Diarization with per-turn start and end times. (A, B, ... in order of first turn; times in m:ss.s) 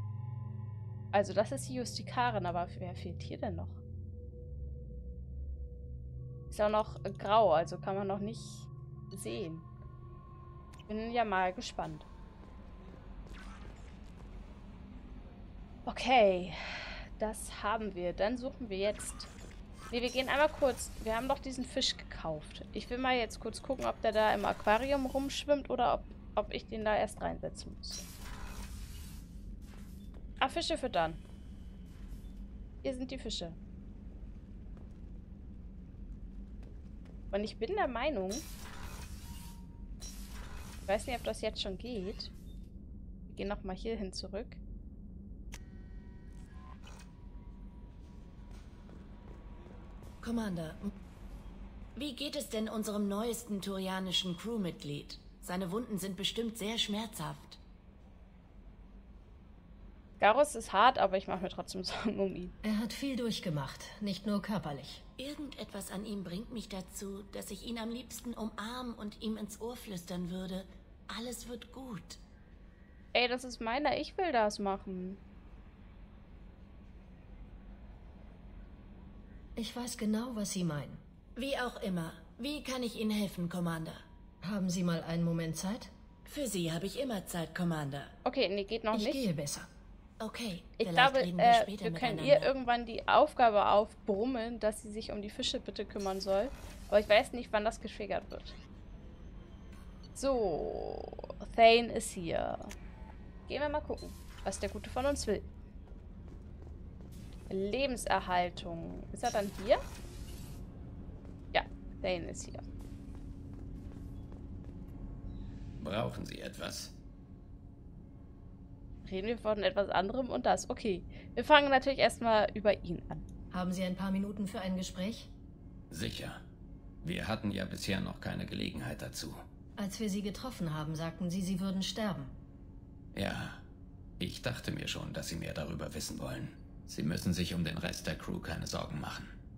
0:01.1-0:03.8 A
0:06.5-0:09.7 A
0:10.9-0:12.0 A
0:15.8-0:16.6 A
0:17.2-0:19.3 A
0:19.9-0:28.1 A
0:30.4-0:31.2 A
0:32.8-0:33.6 A
0:37.3-0:38.4 A
0:40.9-0:42.3 A
0:43.3-0:44.6 A
0:50.2-0:50.9 B
0:52.0-0:57.6 B
1:00.2-1:02.5 A
1:02.6-1:05.0 C
1:05.2-1:12.2 B
1:13.1-1:15.2 A
1:19.6-1:21.0 C
1:21.4-1:24.0 B
1:24.4-1:25.9 C
1:26.2-1:28.1 B
1:28.2-1:29.2 A
1:28.9-1:29.7 C
1:30.2-1:32.5 B
1:30.8-1:38.6 A
1:40.1-1:42.7 A
1:43.5-1:45.4 A
1:47.5-1:49.8 A
1:51.5-1:52.6 A
1:55.8-1:57.0 D
1:59.0-2:03.2 A
2:03.5-2:05.3 C
2:05.9-2:06.4 D
2:07.0-2:09.4 D
2:09.8-2:12.3 C
2:13.1-2:13.6 D
2:14.2-2:19.3 D